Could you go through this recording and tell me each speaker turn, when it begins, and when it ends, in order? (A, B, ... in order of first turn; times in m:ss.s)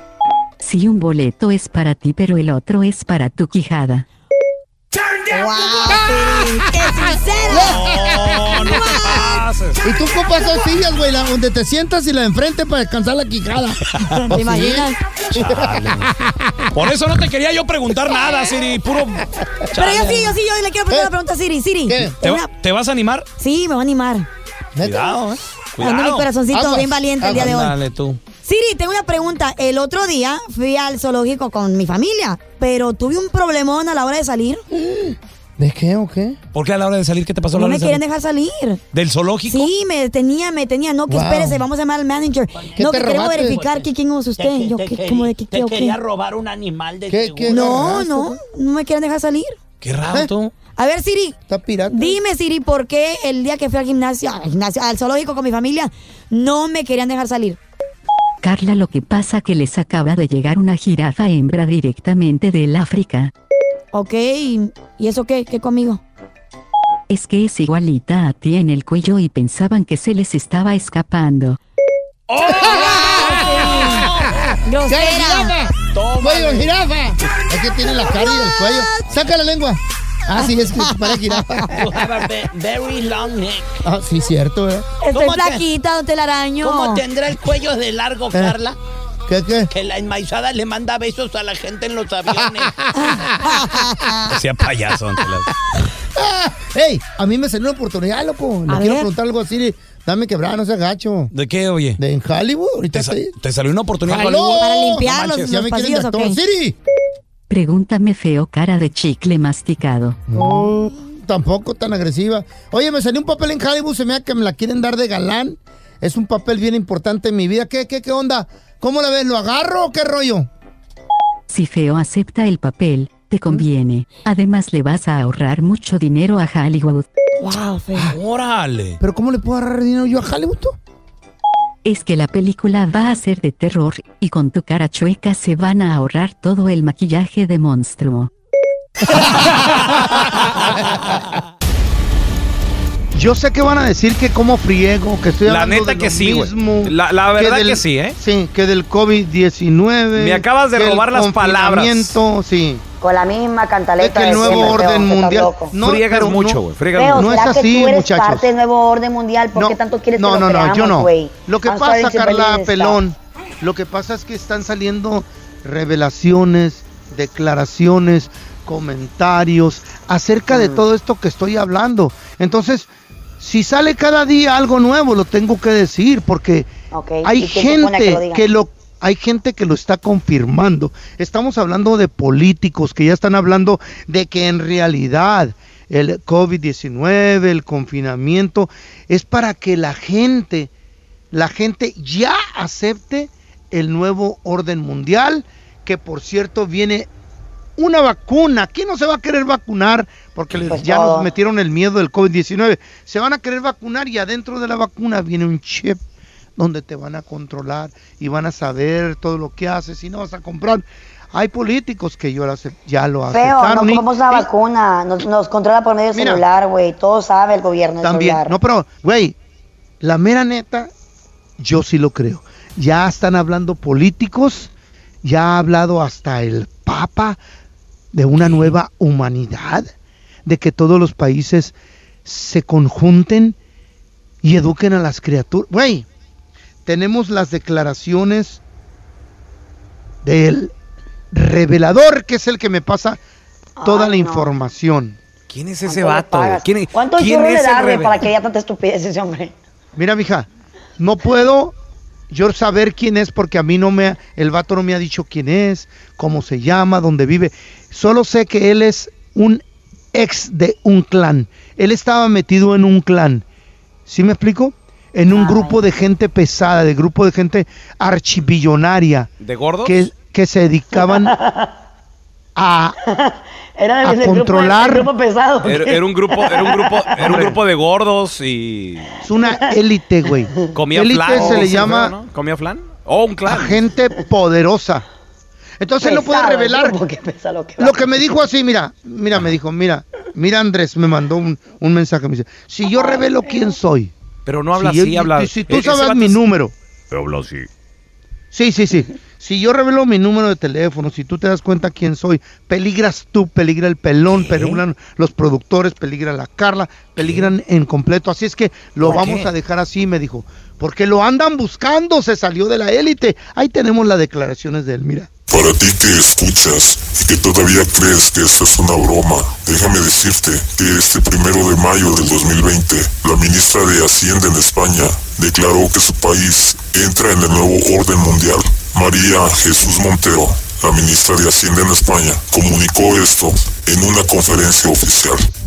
0:00.6-0:04.0 A
0:05.1-0:06.1 B
0:05.3-0:07.8 C
0:07.5-0:09.2 D
0:07.5-0:09.8 B
0:09.8-0:16.6 D
0:14.0-0:14.5 B
0:14.3-0:15.0 C
0:15.3-0:16.1 B
0:16.7-0:20.4 B
0:19.8-0:22.5 C
0:21.9-0:22.2 D
0:22.2-0:23.2 B
0:23.4-0:24.2 C
0:24.8-0:25.4 D
0:24.8-0:26.3 B
0:25.8-0:27.8 C
0:26.5-0:27.6 D
0:27.2-0:28.2 B
0:28.4-0:34.6 C
0:34.8-0:36.4 D
0:36.5-0:38.0 B
0:37.5-0:38.8 C
0:38.9-0:39.7 B
0:39.5-0:46.0 C
0:41.1-0:41.6 D
0:42.5-0:47.7 E
0:42.8-0:43.6 D
0:47.1-0:48.4 D
0:47.5-0:49.6 C
0:49.8-0:50.5 B
0:50.8-0:51.4 C
0:51.5-0:52.2 D
0:51.9-0:57.6 C
0:58.4-1:03.3 A
1:03.9-1:06.0 C
1:07.1-1:11.6 A
1:12.3-1:14.4 B
1:12.4-1:14.1 C
1:12.6-1:14.1 D
1:14.6-1:15.5 C
1:14.8-1:21.8 D
1:16.0-1:16.7 B
1:18.2-1:18.9 C
1:20.3-1:21.7 C
1:21.7-1:23.6 E
1:23.8-1:24.8 D
1:25.0-1:27.0 C
1:25.1-1:25.6 E
1:26.6-1:28.8 E
1:29.3-1:29.7 D
1:29.7-1:32.7 E
1:33.0-1:33.5 D
1:33.4-1:34.2 C
1:34.3-1:35.5 B
1:36.2-1:41.3 D
1:38.7-1:39.1 C
1:41.3-1:42.0 B
1:42.0-1:43.3 D
1:42.9-1:45.5 B
1:44.0-1:46.7 D
1:44.6-1:46.4 C
1:47.5-1:50.2 A
1:50.3-2:00.5 D
2:01.5-2:07.0 A
2:07.4-2:08.1 C
2:08.0-2:09.0 B
2:09.0-2:10.8 D
2:11.8-2:18.3 A
2:19.2-2:19.9 D
2:19.2-2:21.2 B
2:23.1-2:32.8 D
2:25.4-2:28.2 B
2:30.1-2:32.2 B
2:33.0-2:35.7 F
2:34.0-2:38.5 D
2:35.8-2:37.3 B
2:37.0-2:43.0 F
2:39.5-2:56.7 D
2:50.5-2:50.8 F
2:56.9-2:58.5 F
2:57.2-3:10.7 D
3:11.3-3:17.1 D
3:17.8-3:26.0 D
3:20.7-3:21.3 F
3:26.6-3:34.5 D
3:33.3-3:38.5 F
3:36.1-3:36.4 D
3:38.0-3:39.4 D
3:40.0-3:40.9 D
3:41.6-3:44.7 D
3:45.2-3:47.4 D
3:48.1-3:49.9 D
3:48.4-3:48.7 B
3:50.4-3:51.7 D
3:52.2-3:53.6 D
3:54.4-3:56.1 D
3:56.8-3:58.6 D
4:00.2-4:00.7 D
4:01.3-4:03.2 D
4:03.8-4:04.5 F
4:03.8-4:05.2 D
4:05.5-4:08.2 B
4:05.9-4:09.5 F
4:10.0-4:11.7 D
4:12.3-4:23.4 D
4:24.1-4:29.3 D
4:25.3-4:25.8 F
4:29.4-4:30.1 B
4:29.8-4:31.3 D
4:31.0-4:31.7 F
4:32.6-4:32.9 D
4:33.1-4:37.1 F
4:34.0-4:35.1 D
4:35.6-4:39.2 B
4:37.2-4:37.6 D
4:39.2-4:42.1 D
4:39.4-4:39.6 F
4:40.7-4:43.8 B
4:41.3-4:41.7 F
4:43.4-4:45.0 D
4:45.8-4:47.0 D
4:46.0-4:48.3 F
4:47.8-4:54.1 D
4:52.9-4:53.7 F
4:54.4-4:56.4 B
4:54.7-4:56.7 D
4:57.1-4:57.6 B
4:58.5-5:15.3 D
5:04.3-5:04.8 B
5:07.2-5:07.5 B
5:09.0-5:09.5 B
5:15.5-5:35.4 G